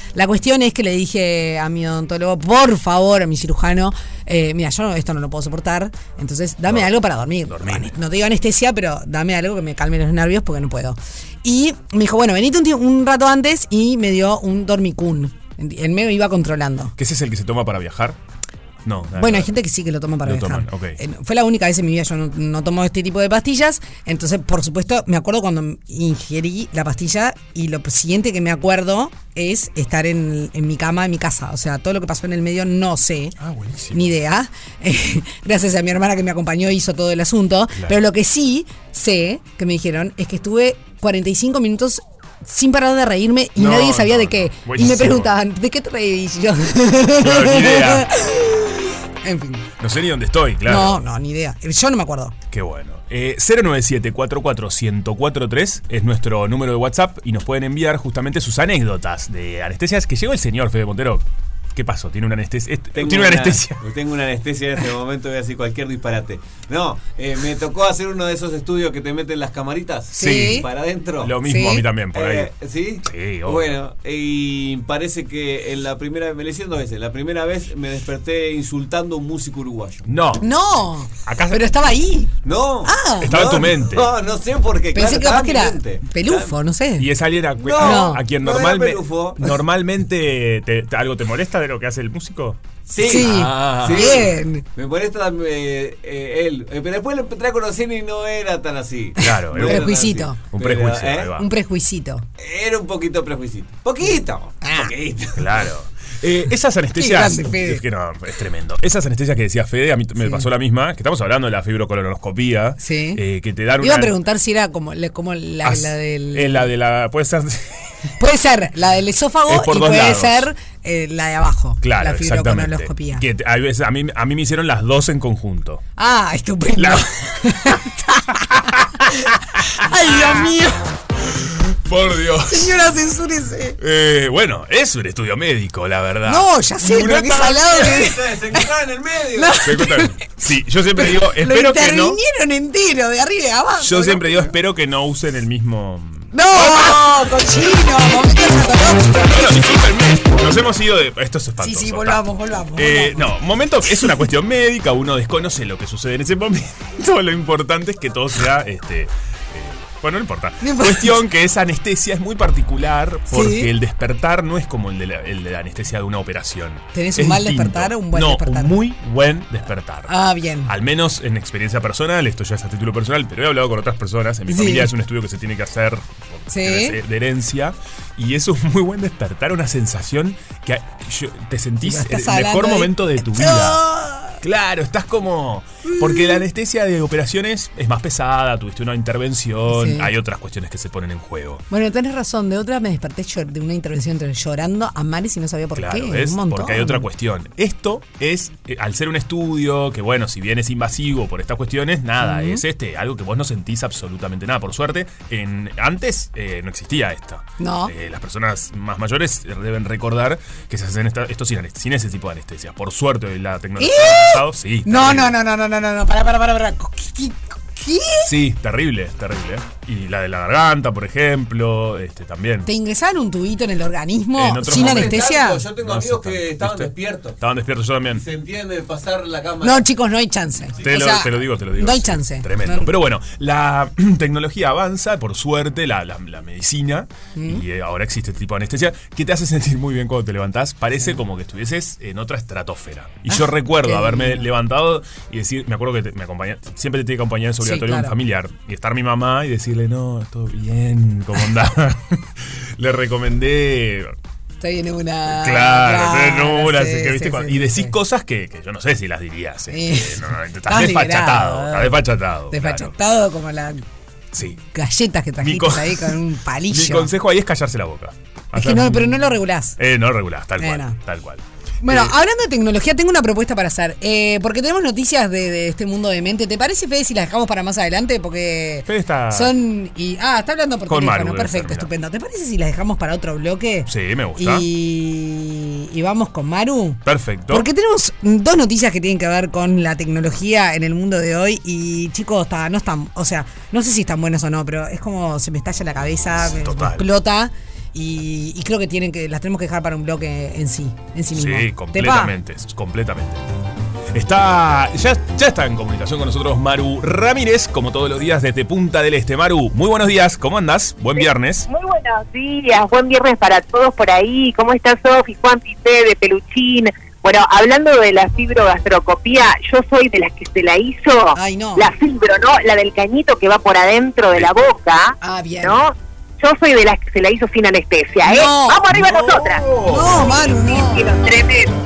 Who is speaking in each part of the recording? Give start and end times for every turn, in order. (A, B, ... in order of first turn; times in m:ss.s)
0:00.2-0:17.0 A
0:06.7-0:06.9 B
0:07.5-0:07.9 B
0:17.0-0:18.2 B
0:18.9-0:19.5 B
0:19.2-0:33.4 A
0:20.2-0:21.0 B
0:33.4-0:34.2 B
0:33.9-0:49.7 A
0:43.6-0:45.3 B
0:47.2-0:48.1 B
0:49.8-0:51.0 B
0:50.7-0:52.3 A
0:52.5-1:01.2 B
1:01.8-1:03.8 B
1:02.9-1:11.4 C
1:10.1-1:10.7 A
1:10.2-1:10.7 B
1:11.2-1:12.5 B
1:11.4-1:11.8 A
1:12.1-1:20.1 C
1:13.0-1:13.7 B
1:20.1-1:20.5 B
1:20.4-1:22.3 A
1:21.2-1:21.7 B
1:22.4-1:26.6 C
1:22.8-1:23.4 A
1:23.2-1:24.1 B
1:24.9-1:27.1 A
1:27.0-1:34.2 B
1:27.6-1:29.5 C
1:27.8-1:28.2 A
1:32.9-1:41.3 C
1:33.0-1:34.6 A
1:39.2-1:40.4 A
1:39.2-1:41.5 B
1:41.4-1:42.2 A
1:42.4-1:45.6 C
1:44.6-1:44.9 A
1:45.4-1:54.2 B
1:47.0-1:47.8 A
1:50.2-1:50.5 A
1:52.8-1:53.2 A
1:53.8-1:56.7 A
1:55.6-1:57.7 B
1:58.2-2:03.2 A
1:59.5-2:00.5 B
2:01.8-2:05.8 B
2:06.0-2:10.9 A
2:06.8-2:07.8 B
2:09.6-2:10.4 B
2:11.9-2:12.8 B
2:12.5-2:13.8 A
2:13.8-2:17.6 B
2:16.3-2:18.6 A
2:17.6-2:19.6 C
2:19.4-2:20.3 A
2:19.6-2:22.2 B
2:21.0-2:24.5 A
2:23.8-2:27.4 B
2:26.3-2:29.6 A
2:29.3-2:32.2 B
2:31.6-2:33.3 A
2:32.8-2:50.1 B
2:40.6-2:41.2 A
2:43.3-2:43.7 A
2:47.0-2:48.7 A
2:50.1-2:50.7 A
2:50.7-3:03.8 B
2:54.5-2:54.9 A
2:56.5-2:57.0 A
3:01.8-3:04.4 A
3:04.4-3:11.6 B
3:05.9-3:06.4 A
3:09.7-3:10.1 A
3:11.7-3:17.1 A
3:15.8-3:35.4 B
3:22.2-3:22.6 A
3:27.6-3:27.9 A
3:33.8-3:38.3 A
3:38.2-3:42.7 B
3:42.6-3:45.6 A
3:44.4-3:48.2 B
3:44.7-3:47.4 C
3:48.1-3:49.8 C
3:49.6-3:52.9 A
3:50.8-4:14.1 B
3:57.4-3:57.6 A
4:03.3-4:04.4 A
4:07.6-4:08.1 A
4:14.6-4:18.0 A
4:15.3-4:22.9 B
4:19.7-4:23.8 A
4:24.3-4:24.6 B
4:24.7-4:27.1 A
4:25.4-4:26.1 B
4:26.7-4:29.3 B
4:28.5-4:29.8 A
4:29.8-4:32.1 B
4:30.6-4:31.0 A
4:31.8-5:02.3 A
4:38.9-4:39.5 B
4:40.9-4:41.9 B
4:43.9-4:44.6 B
4:47.0-4:47.7 B
4:56.4-4:57.1 B
5:01.3-5:03.4 B
5:04.1-5:11.7 B
5:11.2-5:29.6 D
5:21.3-5:21.9 A
5:25.2-5:25.8 A
5:28.2-5:28.8 A
5:28.9-5:30.8 B
5:29.8-5:31.1 A
5:30.8-5:31.7 D